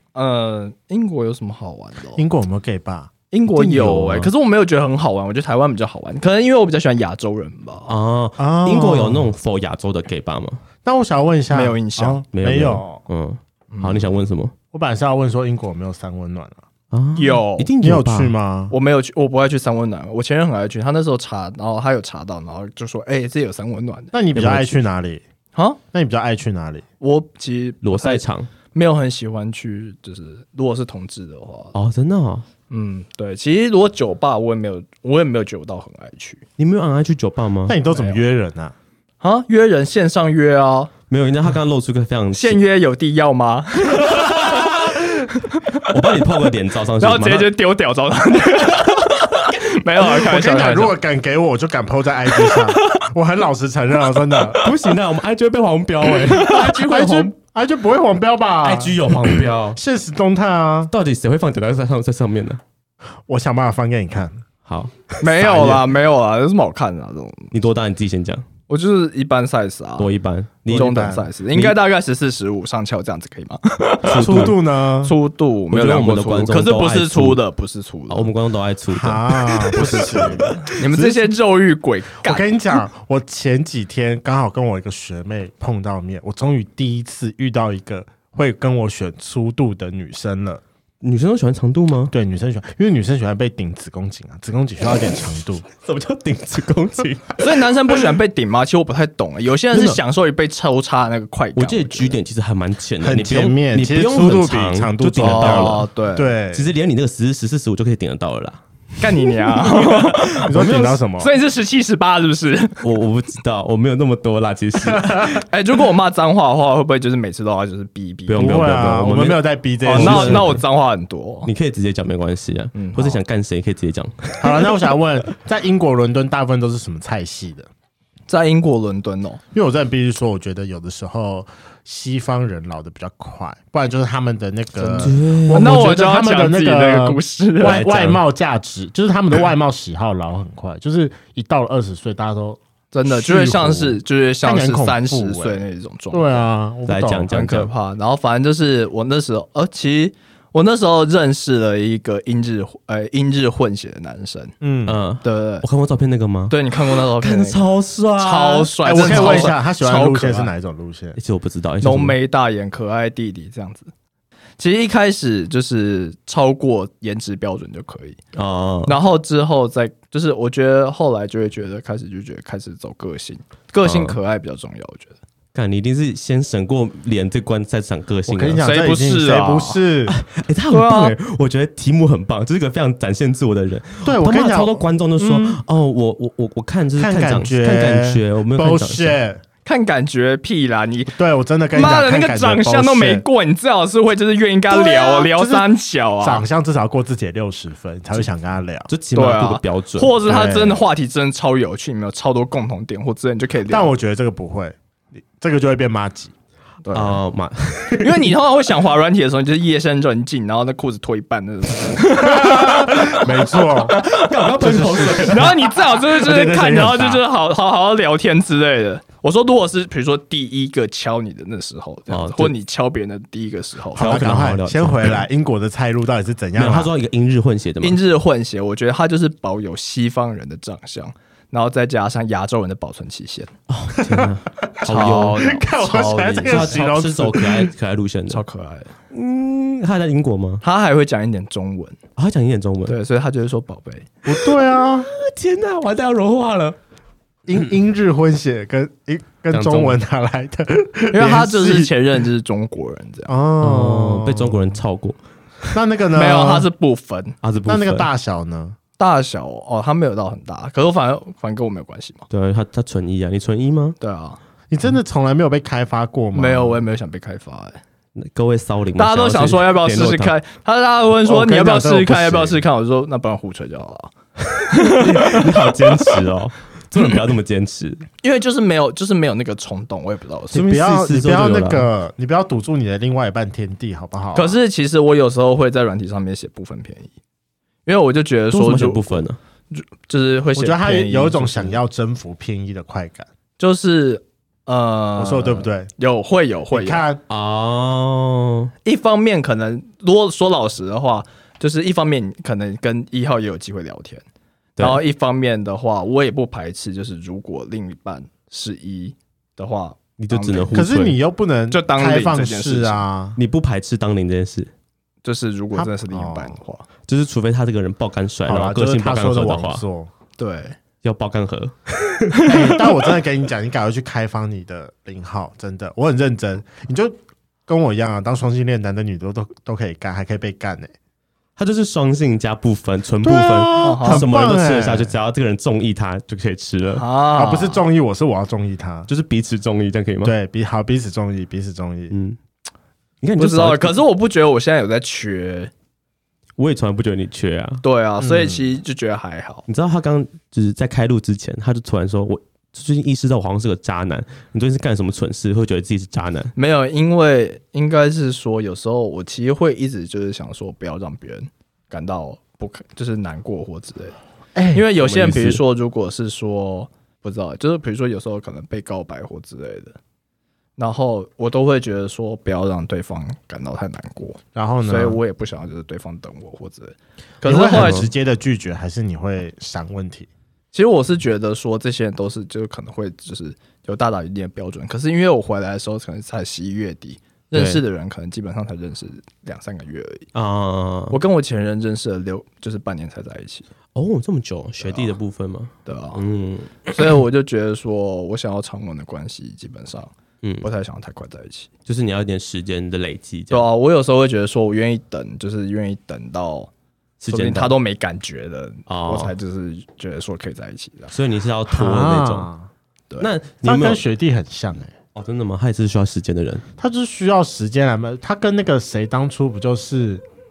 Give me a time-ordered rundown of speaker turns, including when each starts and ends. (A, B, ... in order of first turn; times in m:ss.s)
0:00.1-0:02.2 A
0:02.2-0:03.1 B
0:03.3-0:07.9 A
0:03.5-0:04.3 C
0:07.9-0:10.6 C
0:08.4-0:09.3 B
0:10.8-0:13.0 B
0:11.5-0:12.2 A
0:12.3-0:14.5 C
0:13.7-0:14.1 A
0:14.7-0:16.6 B
0:16.9-0:18.3 C
0:17.2-0:17.7 A
0:17.8-0:18.7 B
0:18.7-0:24.1 A
0:24.1-0:25.2 B
0:24.3-0:24.8 C
0:25.5-0:25.8 A
0:25.9-0:26.8 B
0:27.0-0:31.7 A
0:27.8-0:28.5 C
0:31.7-0:32.4 C
0:32.7-0:36.4 A
0:36.6-0:37.8 C
0:37.6-0:38.7 B
0:37.8-0:38.2 A
0:39.2-0:40.9 A
0:41.1-0:42.6 C
0:42.3-0:45.8 A
0:44.1-0:44.4 C
0:45.8-0:47.5 C
0:47.0-0:51.0 A
0:50.0-0:54.7 B
0:52.3-0:53.0 A
0:54.6-0:57.0 C
0:56.2-0:57.3 A
0:56.4-0:59.1 B
0:58.6-0:59.8 C
0:59.7-1:00.9 B
1:00.9-1:02.6 C
1:03.3-1:04.4 B
1:04.6-1:05.8 C
1:05.2-1:07.5 A
1:05.5-1:05.8 B
1:07.5-1:08.4 C
1:08.7-1:10.1 A
1:10.0-1:11.8 C
1:10.7-1:18.3 A
1:10.7-1:11.2 B
1:14.0-1:14.6 C
1:14.1-1:15.1 B
1:15.7-1:17.4 C
1:18.1-1:21.0 C
1:18.9-1:20.6 B
1:19.7-1:22.6 A
1:22.2-1:30.6 B
1:31.0-1:32.1 C
1:32.1-1:35.6 B
1:35.8-1:37.6 C
1:37.4-1:42.2 A
1:39.7-1:40.0 C
1:41.6-1:45.8 C
1:43.0-1:46.7 B
1:45.2-1:46.3 A
1:46.5-1:48.6 C
1:49.0-1:52.8 A
1:49.2-1:50.9 C
1:50.4-1:51.3 B
1:52.8-1:55.4 C
1:54.8-1:55.3 B
1:55.4-1:58.8 A
1:58.3-2:00.6 C
1:58.4-2:00.5 B
1:59.8-2:01.5 A
2:01.4-2:04.7 C
2:02.7-2:03.2 A
2:04.4-2:07.7 B
2:08.3-2:09.4 A
2:09.5-2:27.3 B
2:14.8-2:17.9 A
2:15.0-2:15.8 C
2:17.6-2:18.2 C
2:22.9-2:26.5 A
2:26.9-2:27.7 C
2:27.3-2:34.5 A
2:34.6-2:35.0 B
2:34.8-2:39.5 C
2:35.2-2:35.6 A
2:36.5-2:37.6 A
2:38.2-2:40.5 A
2:38.8-2:41.2 B
2:41.2-2:42.2 C
2:41.8-2:43.9 A
2:44.6-2:48.2 A
2:48.3-2:49.0 C
2:48.8-2:55.1 A
2:53.8-2:54.2 C
2:55.5-2:58.6 C
2:58.3-3:00.1 B
2:58.6-2:59.8 A
3:00.1-3:09.2 C
3:00.7-3:01.1 A
3:04.0-3:05.6 B
3:07.0-3:09.4 B
3:09.6-3:11.2 A
3:11.1-3:13.2 B
3:11.7-3:16.4 A
3:14.7-3:15.7 B
3:16.2-3:18.9 B
3:18.9-3:20.2 C
3:19.1-3:23.9 A
3:20.2-3:20.8 B
3:23.7-3:24.8 B
3:25.4-3:26.3 B
3:26.8-3:27.2 A
3:26.9-3:28.2 C
3:28.0-3:44.3 A
3:32.2-3:34.0 B
3:34.0-3:35.6 C
3:34.6-3:37.2 B
3:42.1-3:42.5 C
3:43.9-3:46.9 B
3:44.0-3:45.2 C
3:46.6-3:48.0 C
3:47.8-3:53.5 A
3:53.7-3:55.5 C
3:54.0-3:54.3 B
3:54.8-3:56.8 A
3:55.4-3:57.7 B
3:56.4-3:58.4 C
3:58.3-3:58.9 A
3:59.1-4:00.6 C
4:00.6-4:02.0 A
4:02.2-4:03.0 C
4:02.9-4:04.1 A
4:04.2-4:05.1 B
4:05.0-4:06.8 C
4:07.5-4:11.9 B
4:09.5-4:10.0 C
4:11.1-4:13.3 A
4:13.3-4:14.8 B
4:13.6-4:15.7 C
4:15.7-4:16.7 B
4:16.1-4:17.4 A
4:17.4-4:18.1 C
4:17.7-4:18.8 B
4:19.0-4:22.2 A
4:22.3-4:24.0 C
4:24.0-4:24.4 A
4:24.7-4:26.8 B
4:26.3-4:27.8 A
4:28.2-4:30.4 C
4:29.0-4:34.1 A
4:31.2-4:32.6 B
4:34.6-4:36.1 A
4:34.8-4:38.0 C
4:38.2-4:40.7 A
4:40.5-4:41.8 C
4:40.5-4:44.6 B
4:44.3-4:47.1 A
4:47.8-4:51.8 A
4:48.5-4:49.4 C
4:50.5-4:53.3 B
4:53.6-4:57.0 A
4:55.2-4:55.9 B
4:56.7-4:57.2 B
4:57.3-4:58.7 C
4:58.8-5:04.2 A
5:04.8-5:10.8 A
5:10.2-5:11.2 C
5:10.7-5:13.4 B
5:11.7-5:13.0 A
5:13.4-5:14.7 C
5:15.2-5:16.8 A
5:15.7-5:16.6 B
5:17.1-5:19.8 C
5:18.4-5:20.1 B
5:20.4-5:20.8 A
5:21.0-5:22.5 C
5:22.4-5:22.7 A
5:22.5-5:30.9 B
5:31.6-5:37.0 C
5:33.2-5:35.1 B
5:33.8-5:34.3 A
5:36.9-5:37.8 A
5:37.3-5:39.1 B
5:39.1-5:40.3 C
5:40.2-5:42.1 B
5:42.1-5:42.4 C
5:43.2-5:44.0 C
5:43.4-5:45.7 A
5:46.6-5:47.8 C
5:47.8-5:49.6 A
5:48.2-5:48.7 B
5:49.7-5:56.5 C
5:56.6-6:04.2 A
6:04.5-6:04.9 B
6:04.7-6:10.0 A
6:05.0-6:05.6 C
6:10.8-6:18.1 A
6:14.5-6:15.2 B
6:17.4-6:20.3 B
6:17.7-6:18.1 C
6:20.7-6:30.3 A
6:27.5-6:27.8 C
6:30.3-6:31.2 C
6:31.1-6:33.7 A
6:33.9-6:36.9 C
6:34.8-6:35.1 A
6:35.8-6:36.2 A
6:36.8-6:41.7 A
6:40.4-6:40.7 C
6:41.8-6:43.6 C
6:43.5-6:46.7 A
6:47.2-6:47.7 C
6:47.3-6:51.1 A
6:48.9-6:49.3 C
6:51.1-6:52.5 C
6:51.7-6:52.7 B
6:53.2-6:54.0 C
6:53.6-6:54.9 B
6:55.1-6:56.6 C
6:56.8-7:00.2 B